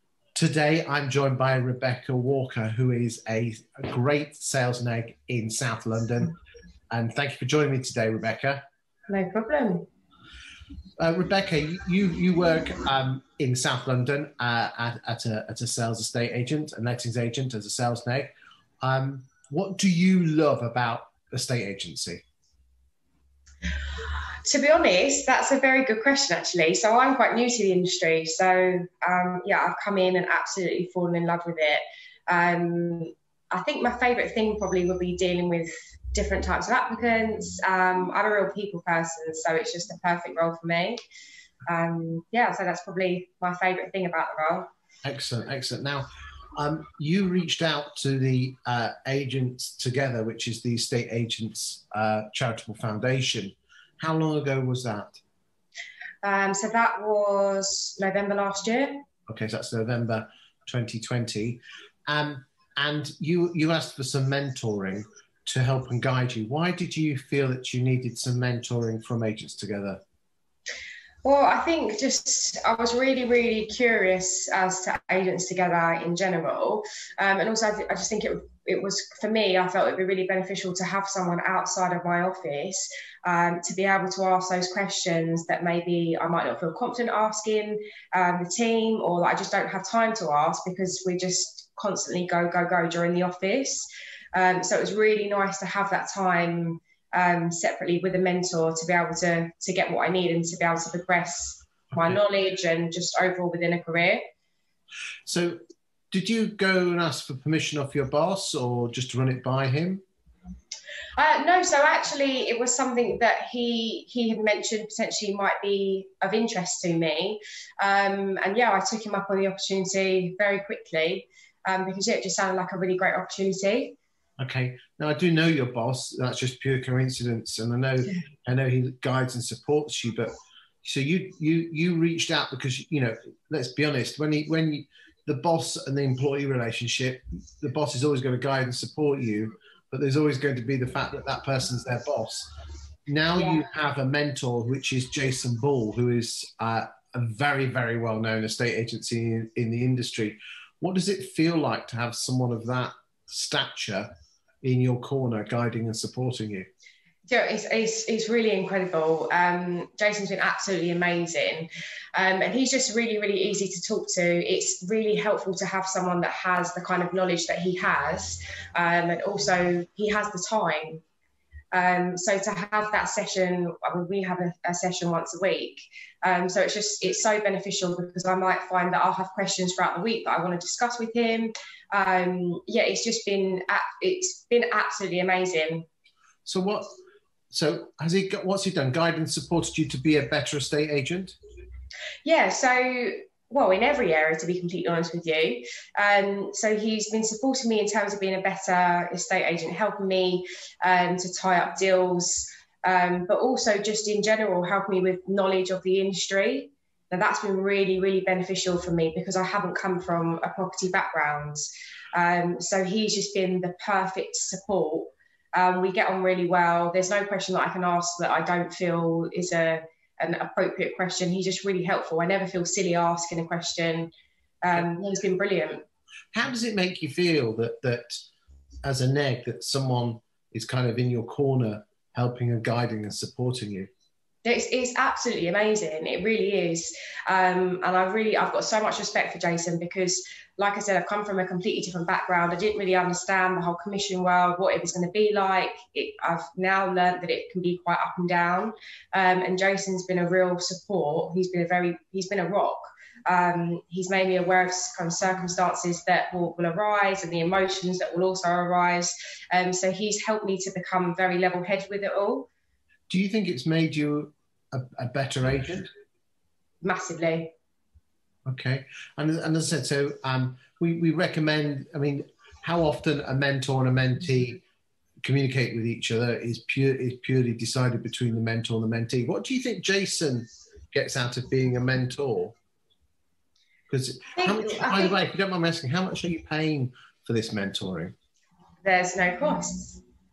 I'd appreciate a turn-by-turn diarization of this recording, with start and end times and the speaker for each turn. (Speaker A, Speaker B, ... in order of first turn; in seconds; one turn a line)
Speaker A: 0.3-6.3
Speaker A: 6.9-8.6
Speaker B: 9.1-9.9
Speaker A: 11.0-22.2
Speaker B: 24.5-41.0
Speaker B: 41.7-44.7
Speaker A: 45.0-55.2
Speaker B: 56.2-59.0
Speaker A: 59.3-70.0
Speaker B: 71.2-104.2
Speaker A: 105.3-105.6
Speaker A: 106.1-110.0
Speaker B: 111.2-124.0
Speaker A: 124.4-130.3
Speaker A: 130.8-142.5
Speaker A: 143.1-154.1
Speaker B: 143.3-143.6
Speaker A: 154.6-156.7
Speaker B: 157.3-171.0
Speaker B: 171.7-185.9
Speaker A: 186.5-186.9
Speaker A: 187.5-191.3
Speaker B: 192.2-225.8
Speaker A: 226.3-228.2
Speaker A: 228.8-233.9
Speaker B: 234.4-262.5
Speaker A: 263.1-265.9
Speaker B: 266.8-267.5
Speaker A: 268.5-274.6
Speaker A: 275.2-282.5
Speaker A: 283.9-288.1
Speaker B: 284.4-285.2
Speaker B: 288.8-290.0